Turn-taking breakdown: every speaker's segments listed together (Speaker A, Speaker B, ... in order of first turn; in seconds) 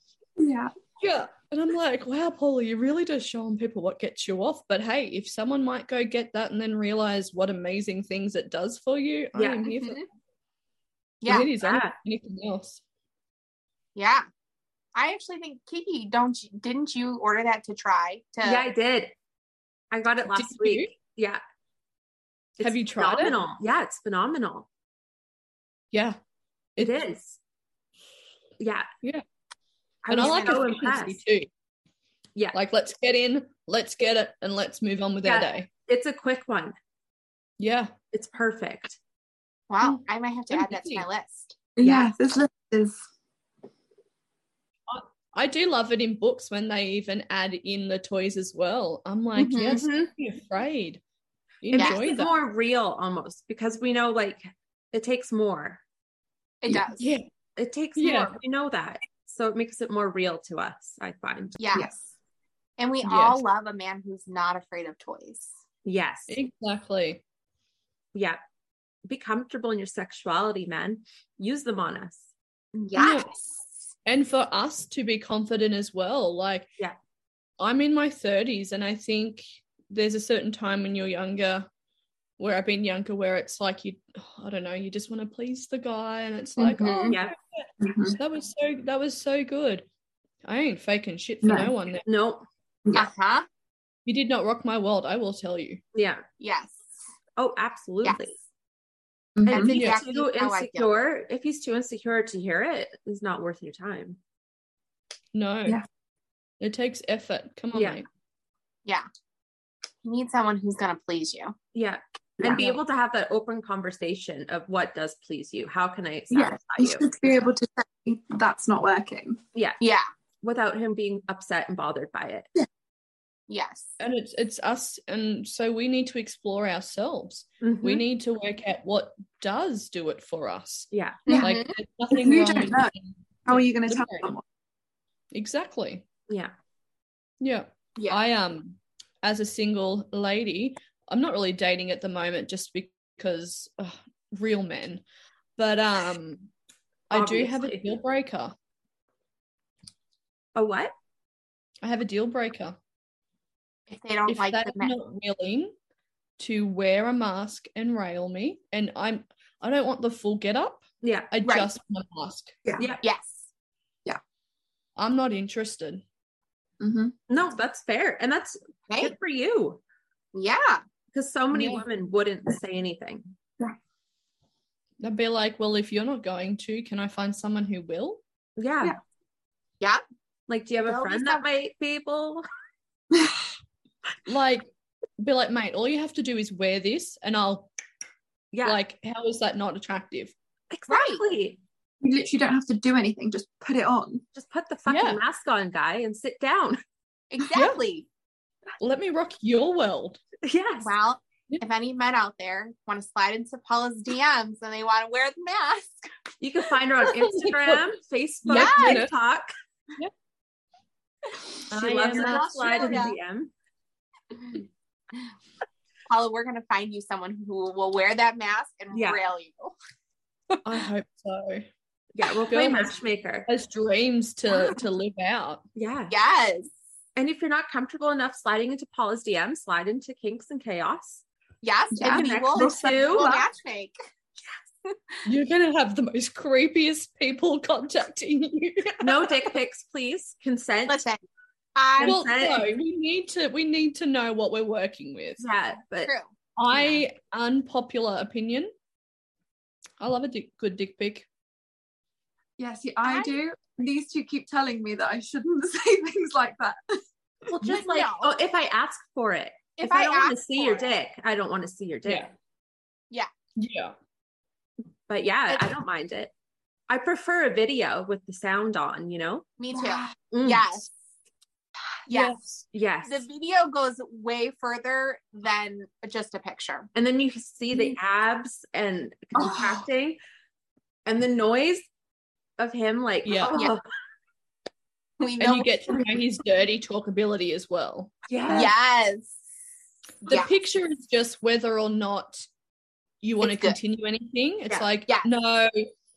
Speaker A: 0.4-0.7, 41.8-43.0, 61.7-62.0, 87.8-88.2, 91.4-91.7, 99.3-99.7, 116.3-119.4, 132.1-132.9, 133.4-134.4, 166.8-167.1, 183.1-183.4, 192.0-194.2, 231.9-233.4, 252.6-256.8, 269.7-270.1, 279.4-279.8
Speaker B: 1.0-10.0, 11.2-12.8, 20.3-20.9, 22.6-23.4, 25.9-26.2, 30.1-31.5, 32.5-35.7, 37.6-37.9, 39.8-41.0, 44.9-51.0, 51.6-52.3, 57.0-57.2, 58.0-58.4, 63.0-63.4, 66.3-67.2, 73.0-73.4, 74.0-76.7, 77.6-81.7, 82.4-89.8, 90.4-92.0, 94.0-95.8, 105.3-105.8, 106.6-108.0, 124.0-134.3, 135.3-136.1, 137.4-145.0, 145.6-146.5, 147.1-148.5, 151.8-152.8, 154.3-155.7, 156.4-162.6, 164.9-166.0, 171.5-171.8, 175.0-178.2, 184.2-187.7, 188.6-190.3, 194.9-195.2, 198.8-200.2, 207.1-207.8, 208.4-209.1, 211.7-213.1, 220.6-221.7, 222.5-225.6, 235.2-239.5, 242.0-245.4, 246.6-248.7, 250.0-251.2, 262.0-262.3, 263.6-263.9, 283.2-283.6, 285.4-288.2, 290.2-292.4, 293.2-295.9
Speaker C: 9.3-9.7, 11.6-11.9, 18.4-19.1, 19.9-21.4, 22.6-24.7, 26.8-27.4, 28.6-28.9, 30.1-31.2, 35.2-36.7, 38.1-39.0, 51.7-55.8, 57.6-61.6, 65.8-66.4, 68.1-68.4, 69.1-72.3, 87.1-87.3, 92.0-92.4, 95.9-96.2, 97.4-98.4, 99.5-104.2, 107.7-108.0, 111.7-117.1, 119.5-119.8, 120.4-122.5, 127.6-128.0, 130.9-131.2, 147.1-147.9, 150.5-150.9, 161.0-161.3, 162.8-163.0, 167.3-169.8, 171.1-173.3, 178.6-179.0, 180.5-182.4, 188.5-188.8, 190.7-191.6, 194.3-196.8, 200.4-200.9, 206.4-209.5, 211.7-213.5, 218.9-219.2, 222.1-223.5, 225.8-226.1, 227.2-231.2, 232.0-233.3, 239.0-241.0, 242.0-242.7, 245.4-246.1, 246.7-247.0, 257.5-262.3, 265.1-266.3, 266.9-269.5, 270.3-270.8, 272.7-273.2, 276.9-280.2, 281.1-281.9, 282.6-283.8, 288.3-288.7
Speaker D: 9.8-10.0, 11.2-11.5, 13.9-14.2, 14.9-18.6, 30.1-30.8, 39.7-41.6, 49.4-50.1, 51.7-52.0, 56.6-57.1, 61.6-61.9, 62.8-65.5, 72.7-73.4, 86.6-87.2, 92.9-93.5, 96.4-96.9, 98.0-98.3, 99.5-100.9, 110.0-111.5, 119.8-120.0, 123.5-123.9, 131.3-131.7, 153.9-154.9, 161.4-161.7, 163.0-163.4, 168.9-169.1, 170.3-170.8, 180.8-181.4, 190.9-191.2, 197.3-198.1, 200.8-206.1, 208.5-209.1, 211.8-213.2, 216.1-219.7, 226.1-226.7, 231.6-233.9, 234.8-235.2, 240.9-241.2, 241.8-242.2, 246.0-246.3, 253.0-253.3, 257.5-258.3, 259.8-260.9, 269.6-270.9, 272.1-272.4, 273.0-276.9, 285.2-286.1, 288.5-289.4, 290.2-290.5, 293.4-293.8